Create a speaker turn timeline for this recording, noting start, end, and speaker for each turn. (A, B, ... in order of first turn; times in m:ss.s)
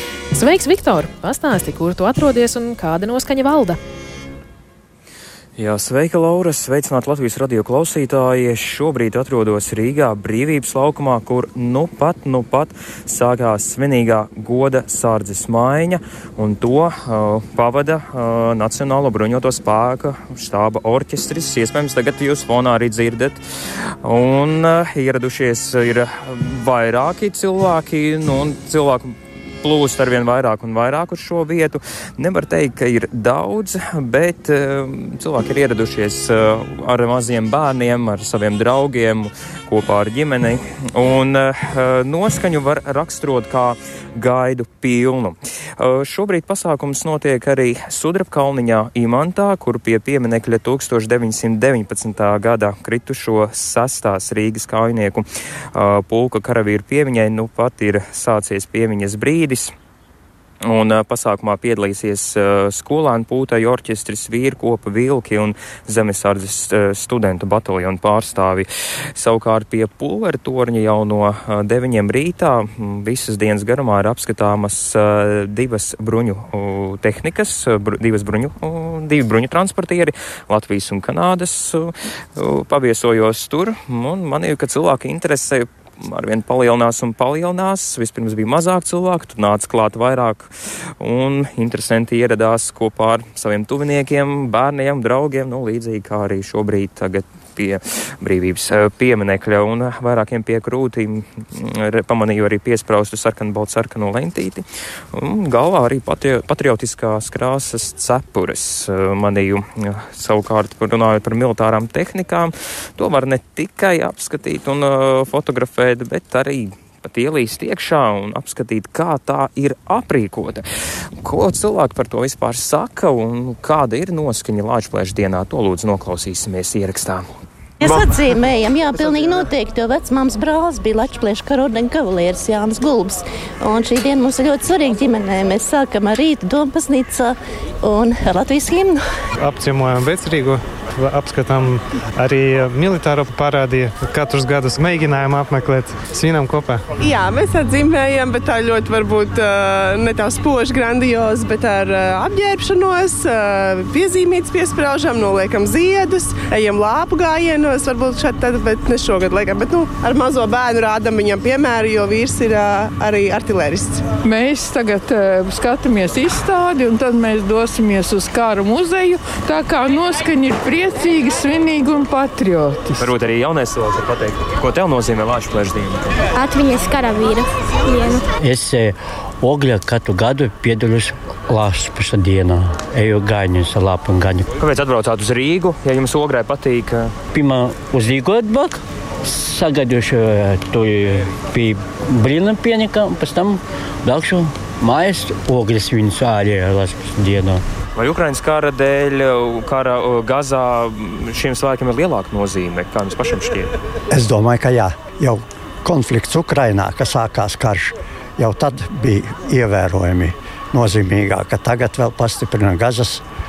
0:00.3-0:03.8 A
0:05.6-0:23.4 B
0:24.0-0:59.7 B
1:00.7-2:00.7 B
2:01.2-2:07.3 B
2:07.8-2:19.0 C
2:19.4-2:26.9 D
2:27.0-2:44.0 E
2:44.2-2:53.1 F
2:45.4-2:46.3 G
2:50.7-2:51.5 G
2:53.0-2:56.0 B
2:56.5-2:58.2 G
2:58.4-3:04.5 H
3:04.6-3:07.1 B
3:07.3-3:17.6 H
3:18.0-3:23.7 B
3:24.1-3:33.2 I